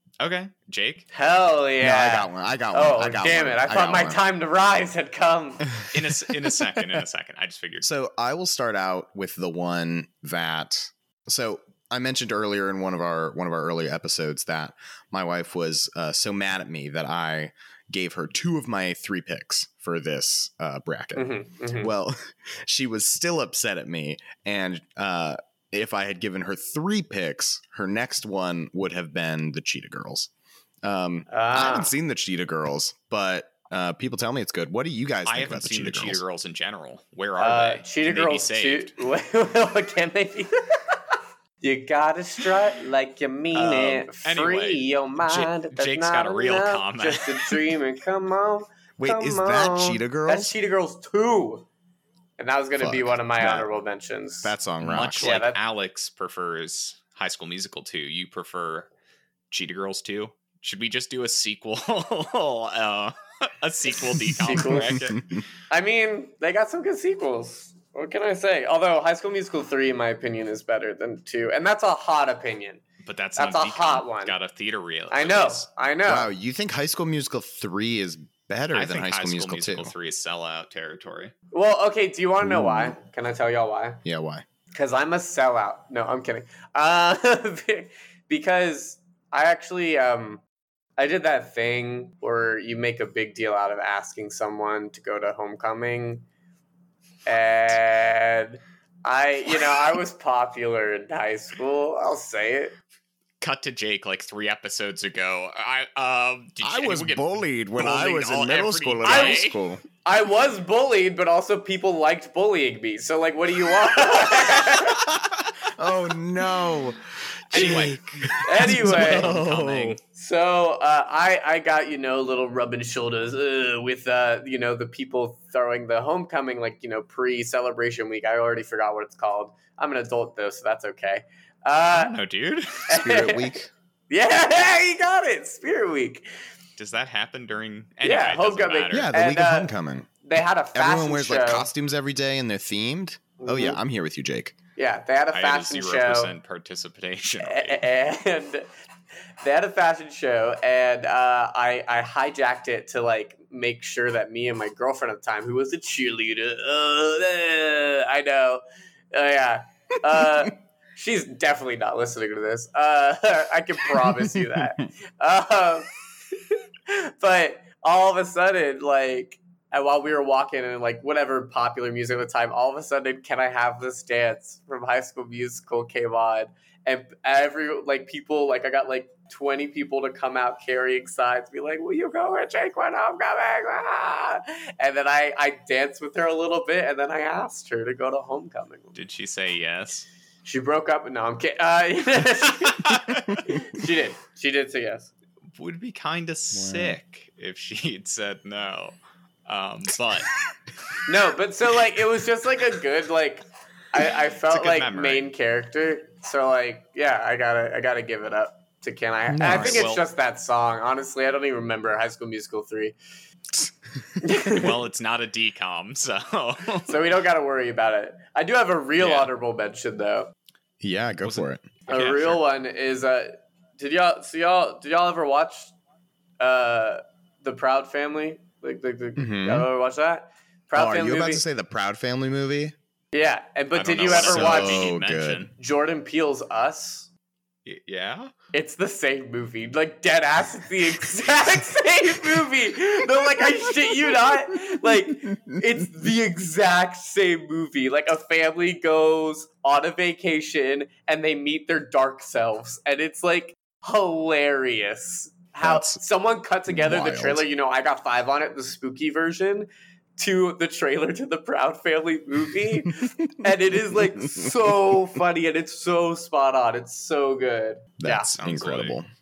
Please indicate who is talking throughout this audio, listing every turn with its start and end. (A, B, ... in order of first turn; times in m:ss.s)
0:00.2-0:01.1 A
0:01.1-0:05.7 B
0:01.8-0:04.2 C
0:05.9-0:07.9 A
0:07.8-0:30.3 C
0:21.2-0:21.9 B
0:30.8-0:36.2 C
0:31.3-0:31.9 B
0:35.3-0:38.9 A
0:37.4-0:41.0 B
0:41.6-0:51.7 B
0:43.5-0:47.7 A
0:49.0-0:50.6 C
0:52.4-0:54.5 B
0:52.8-0:53.7 C
0:54.4-0:55.3 C
0:54.8-0:58.9 A
0:55.2-0:55.6 B
0:59.5-1:05.2 A
1:04.4-1:04.9 B
1:04.4-1:05.4 C
1:05.7-1:12.8 B
1:13.0-1:15.7 A
1:13.4-1:14.4 B
1:15.1-1:16.3 B
1:16.1-1:19.9 C
1:18.7-1:21.3 A
1:21.5-1:24.0 B
1:22.4-1:23.0 C
1:24.0-1:24.4 C
1:24.7-1:30.4 B
1:31.0-1:36.2 B
1:37.3-1:42.8 B
1:43.4-1:49.6 A
1:46.6-1:49.8 C
1:49.0-1:49.5 B
1:50.0-1:55.1 B
1:54.8-2:00.0 C
1:57.5-2:00.0 A
1:57.6-1:57.9 B
1:58.4-1:59.3 B
2:00.1-2:12.2 B
2:11.9-2:12.9 A
2:12.9-2:13.6 B
2:12.9-2:13.7 C
2:14.1-2:16.2 B
2:16.8-2:19.1 A
2:18.0-2:19.7 B
2:18.9-2:20.1 C
2:20.2-2:21.7 B
2:20.7-2:24.6 C
2:23.4-2:23.8 B
2:24.8-2:26.3 B
2:25.3-2:27.8 A
2:27.4-2:28.7 B
2:29.4-2:45.9 B
2:40.2-2:40.5 C
2:44.0-2:44.7 C
2:46.5-3:09.0 B
3:09.0-3:10.1 A
3:10.4-3:15.1 B
3:12.7-3:13.4 A
3:15.5-3:19.0 A
3:16.5-3:17.0 C
3:19.5-3:20.3 A
3:21.1-3:33.0 B
3:24.5-3:25.3 A
3:29.3-3:29.9 C
3:29.5-3:30.0 A
3:34.2-3:34.7 B
3:34.3-3:34.6 C
3:34.5-3:37.0 A
3:36.9-3:40.3 B
3:39.0-3:39.3 A
3:40.8-3:41.7 C
3:41.2-3:42.4 A
3:41.9-3:45.7 B
3:46.4-3:51.4 B
3:49.2-3:49.7 C
3:50.8-3:52.8 C
3:53.1-3:54.9 B
3:53.8-3:55.5 A
3:54.1-3:55.5 C
3:55.6-3:57.1 B
3:57.7-3:58.3 A
3:58.5-4:28.3 B
4:03.6-4:04.4 C
4:15.6-4:16.0 C
4:16.7-4:17.4 C
4:23.9-4:24.7 C
4:28.0-4:29.1 C
4:28.3-4:29.0 A